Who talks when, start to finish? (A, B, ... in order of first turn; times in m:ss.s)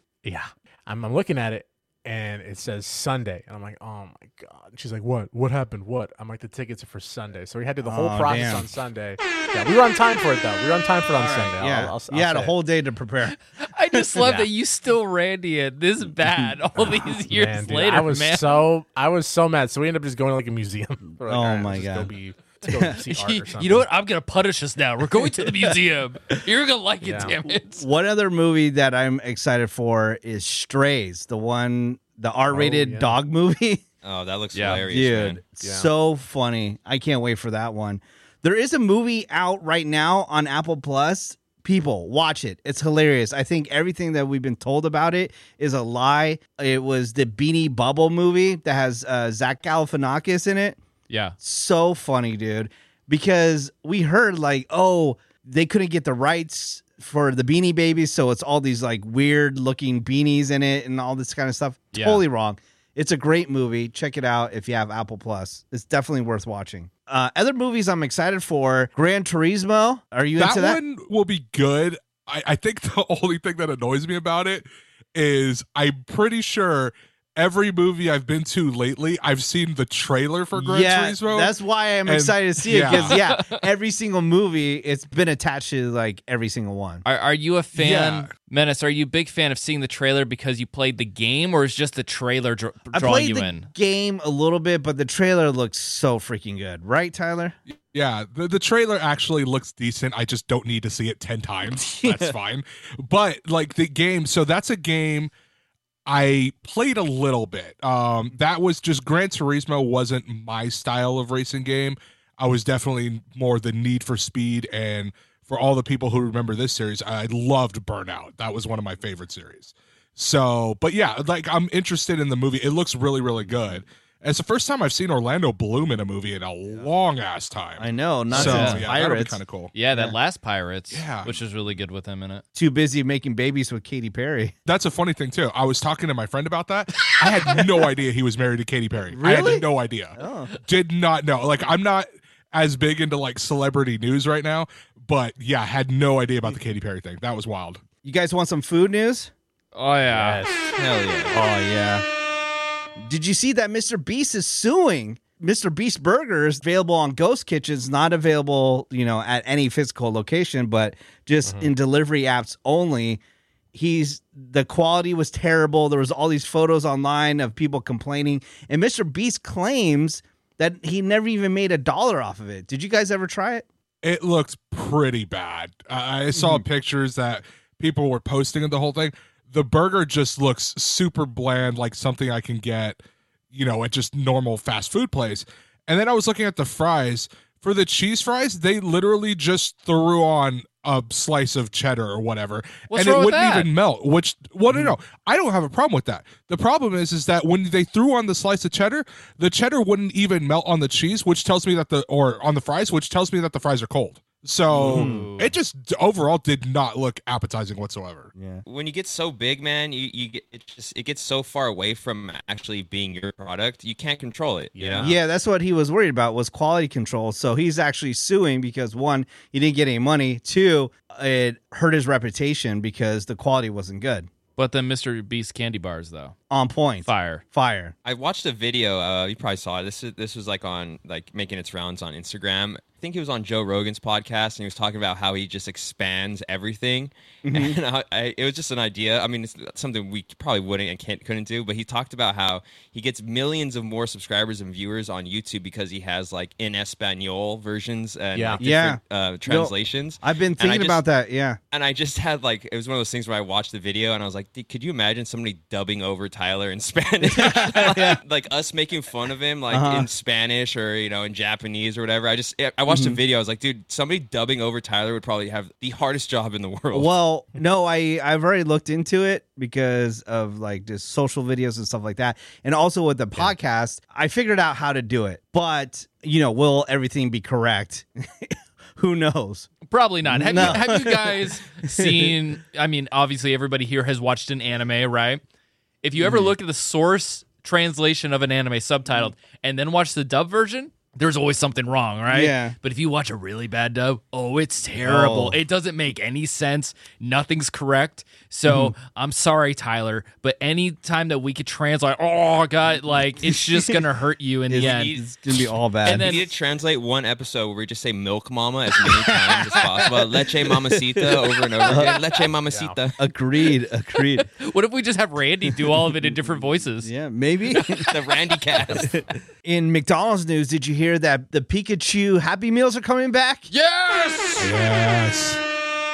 0:00.2-0:12.5 A
0:07.8-0:08.7 B
0:11.2-0:13.4 B
0:13.3-0:18.6 C
0:13.9-0:14.2 B
0:14.2-0:14.5 A
0:16.8-0:23.9 A
0:21.2-0:22.1 B
0:22.7-0:22.9 B
0:23.1-0:27.8 C
0:27.0-0:27.4 A
0:27.4-0:33.8 B
0:32.5-0:33.2 A
0:34.0-0:35.4 D
0:34.5-0:34.8 C
0:34.7-0:50.8 B
0:35.6-0:35.9 A
0:51.1-0:51.4 C
0:51.4-1:10.8 B
1:01.9-1:02.2 C
1:10.4-1:21.5 E
1:20.6-1:27.0 B
1:22.0-1:23.2 E
1:22.8-1:23.6 C
1:27.0-1:33.7 C
1:27.7-1:28.3 E
1:32.9-1:37.6 B
1:37.7-1:45.3 E
1:42.0-1:42.3 B
1:46.1-2:09.7 E
2:07.8-2:09.4 B
2:08.3-2:08.9 C
2:09.7-2:12.4 C
2:10.9-2:11.3 E
2:12.5-2:14.5 B
2:14.6-2:27.8 E
2:19.1-2:19.6 B
2:20.2-2:20.5 B
2:28.0-2:29.3 B
2:29.7-2:30.6 C
2:30.1-2:30.7 A
2:30.8-2:31.3 D
2:31.3-2:32.0 B
2:33.0-2:43.2 B
2:41.4-2:41.7 A
2:43.7-2:53.6 B
2:54.0-3:03.0 E
2:56.3-2:56.6 B
3:03.5-3:28.3 E
3:12.9-3:13.7 C
3:24.7-3:25.3 B
3:24.8-3:25.5 C
3:28.3-3:28.6 B
3:28.6-3:35.1 D
3:34.7-3:35.1 A
3:35.0-3:44.3 B
3:44.6-3:46.4 C
3:46.5-3:47.9 B
3:47.0-3:47.4 C
3:48.0-4:11.0 D
3:57.5-3:57.8 B
4:08.3-4:08.6 A
4:08.6-4:11.6 B
4:11.7-4:27.1 D
4:17.4-4:18.2 B
4:19.7-4:20.1 B
4:22.9-4:23.2 B
4:26.9-4:39.7 B
4:39.8-4:45.4 C
4:40.2-4:42.3 B
4:46.0-5:05.2 C
4:46.2-4:46.5 B
4:52.3-4:52.8 B
4:55.0-4:55.6 B
4:58.6-4:58.9 B
5:04.7-5:06.4 B
5:04.8-5:05.2 D
5:06.0-5:06.5 C
5:06.0-5:13.2 D
5:09.4-5:12.1 B
5:11.8-5:12.2 C
5:12.7-5:13.0 A
5:13.2-5:14.4 B
5:14.2-5:17.1 C
5:15.8-5:16.2 B
5:17.0-5:18.1 B
5:17.8-5:18.1 C
5:18.0-5:19.1 D
5:18.9-5:23.7 B
5:23.7-5:24.7 C
5:24.6-5:25.6 E